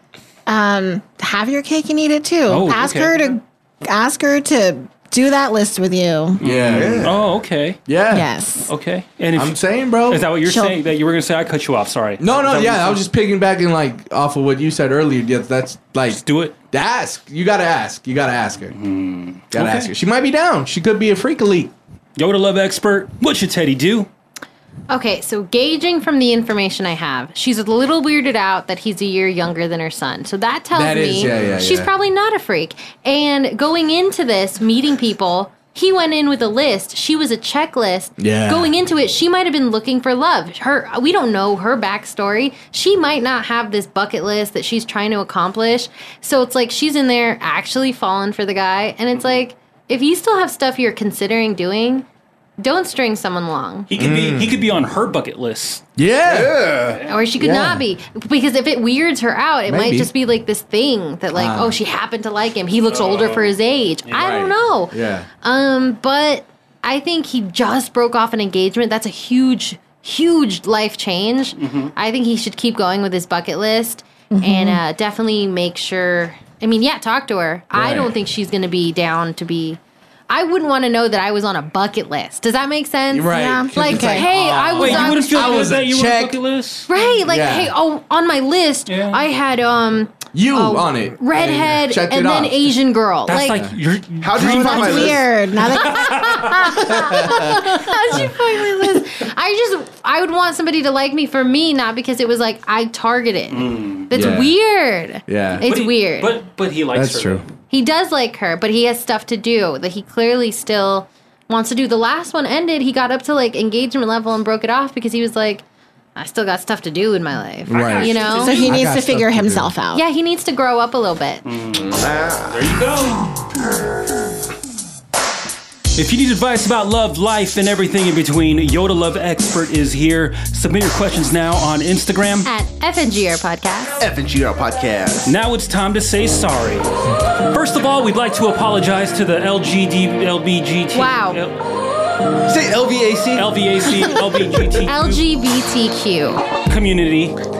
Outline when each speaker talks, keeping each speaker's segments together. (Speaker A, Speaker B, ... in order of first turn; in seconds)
Speaker A: 0.5-6.4, 8.1-8.7, 10.4-10.8, 74.3-74.8, 83.3-84.3, 94.4-97.5, 118.2-120.0
Speaker B: 2.5-3.1, 6.4-7.8, 8.7-13.0, 16.1-16.6, 18.7-19.9, 22.1-24.1, 53.9-55.8, 56.9-57.1, 62.9-63.5, 71.6-71.9, 77.7-78.0, 84.7-86.9, 88.9-89.2, 93.3-96.9, 103.5-104.1, 105.6-107.5, 117.8-118.1, 121.4-123.3, 125.9-132.5, 135.2-141.6, 143.3-145.2, 146.7-147.4
Speaker C: 6.4-7.2, 7.9-8.3, 9.3-10.3, 12.2-18.7, 19.5-21.7, 30.7-31.9, 38.2-38.7, 53.9-54.5, 56.0-56.7, 57.4-57.8, 59.7-60.1, 61.3-61.8, 64.1-65.3, 83.1-86.4, 87.2-87.7, 90.3-92.7, 93.5-93.8, 96.9-97.8, 104.1-104.5, 105.3-105.6, 106.9-107.4, 117.7-119.7
Speaker D: 6.7-7.2, 31.3-31.6, 56.2-57.0, 94.2-95.3, 121.7-122.8, 134.0-135.3, 142.4-143.5
Speaker E: 24.9-52.0, 52.6-53.9, 57.1-79.8, 80.3-85.7, 86.9-93.6, 95.9-106.4, 107.7-115.6, 116.2-118.6, 119.9-121.4, 132.4-134.0, 140.9-141.4, 144.8-146.4